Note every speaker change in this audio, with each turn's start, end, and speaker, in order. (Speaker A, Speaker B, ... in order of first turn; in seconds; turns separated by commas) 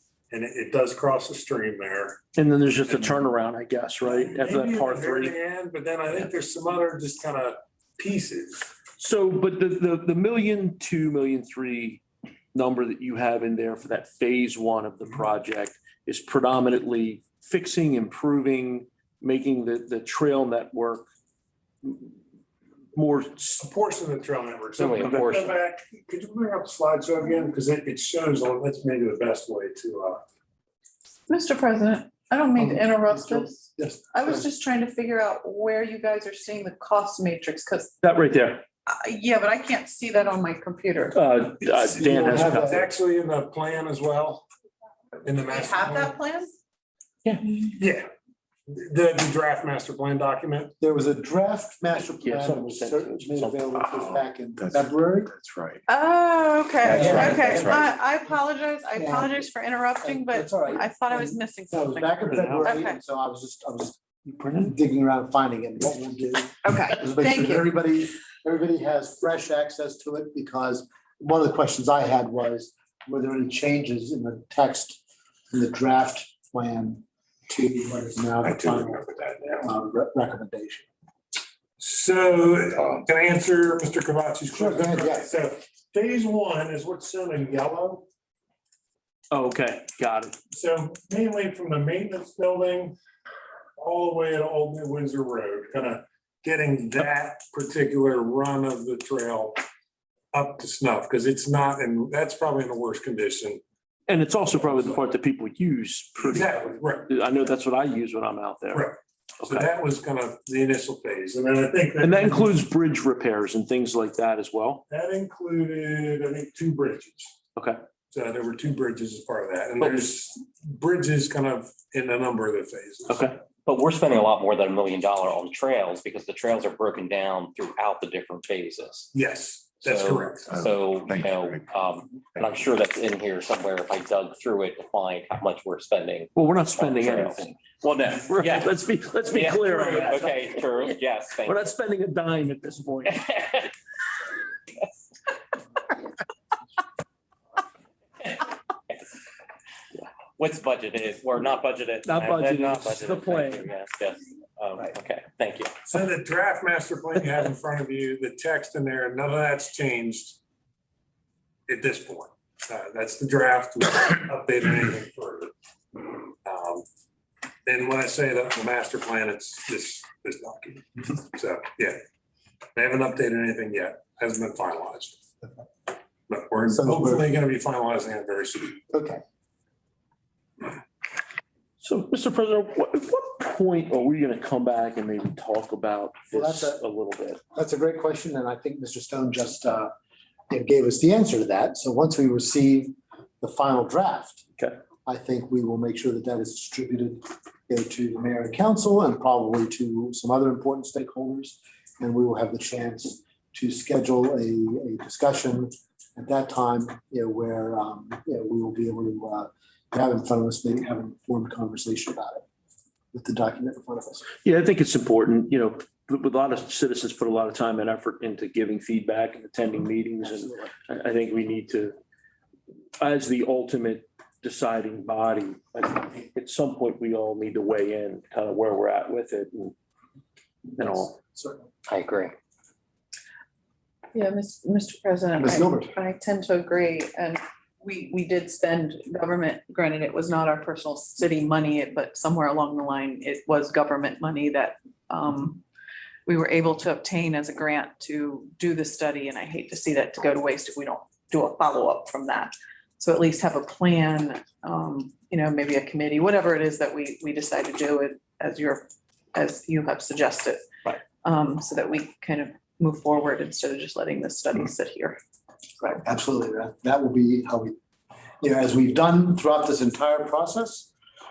Speaker A: 0.3-2.2, Speaker B: 2.3-5.3, Speaker A: 2.9-3.2, Speaker A: 4.1-8.7, Speaker B: 9.0-12.0, Speaker B: 12.5-21.1, Speaker B: 21.8-22.1, Speaker B: 22.9-23.6, Speaker A: 23.6-30.2, Speaker C: 24.8-25.5, Speaker B: 24.9-25.6, Speaker D: 31.3-38.0, Speaker E: 32.6-34.5, Speaker B: 38.0-38.6, Speaker D: 38.9-41.2, Speaker B: 41.1-42.9, Speaker A: 41.8-44.4, Speaker E: 42.1-42.9, Speaker A: 45.2-46.1, Speaker D: 45.4-46.5, Speaker B: 47.2-47.5, Speaker A: 47.8-48.0, Speaker A: 48.7-50.7, Speaker E: 50.8-55.3, Speaker B: 52.2-53.7, Speaker F: 53.8-55.8, Speaker D: 55.9-63.0, Speaker F: 56.8-57.8, Speaker E: 56.9-57.9, Speaker E: 58.9-80.9, Speaker B: 62.3-62.7, Speaker B: 64.3-64.7, Speaker D: 66.6-67.7, Speaker A: 81.8-88.0, Speaker F: 82.8-83.0, Speaker E: 84.5-85.3, Speaker B: 89.3-90.3, Speaker A: 90.5-93.0, Speaker A: 93.8-99.6, Speaker A: 100.3-103.6, Speaker B: 104.1-109.7, Speaker A: 104.6-105.0, Speaker A: 106.2-107.1, Speaker A: 109.4-112.7, Speaker B: 112.0-114.8, Speaker A: 114.9-117.4, Speaker A: 118.1-123.3, Speaker B: 119.8-120.1, Speaker B: 123.1-123.4, Speaker C: 123.7-129.1, Speaker A: 129.1-130.5, Speaker C: 129.8-138.8, Speaker F: 130.5-131.6, Speaker B: 136.3-143.3, Speaker C: 139.3-141.7, Speaker C: 143.1-143.6, Speaker C: 148.2-149.0, Speaker C: 150.4-155.7, Speaker B: 152.0-153.7, Speaker A: 155.9-160.4, Speaker A: 161.7-165.5, Speaker A: 166.4-166.8, Speaker A: 167.7-172.0, Speaker A: 172.8-175.2, Speaker A: 176.3-178.8, Speaker E: 176.7-177.3, Speaker E: 178.9-179.2, Speaker B: 181.8-187.4, Speaker E: 186.3-186.8, Speaker E: 187.5-189.9, Speaker E: 190.5-194.4, Speaker E: 195.0-212.4, Speaker E: 213.1-214.3, Speaker B: 214.4-221.9, Speaker E: 220.3-220.7, Speaker B: 223.0-229.7, Speaker B: 230.8-231.2, Speaker E: 230.8-231.7, Speaker C: 231.9-232.3, Speaker D: 234.1-245.6, Speaker E: 235.4-235.9, Speaker D: 246.3-265.2, Speaker E: 265.9-267.7, Speaker E: 268.4-270.9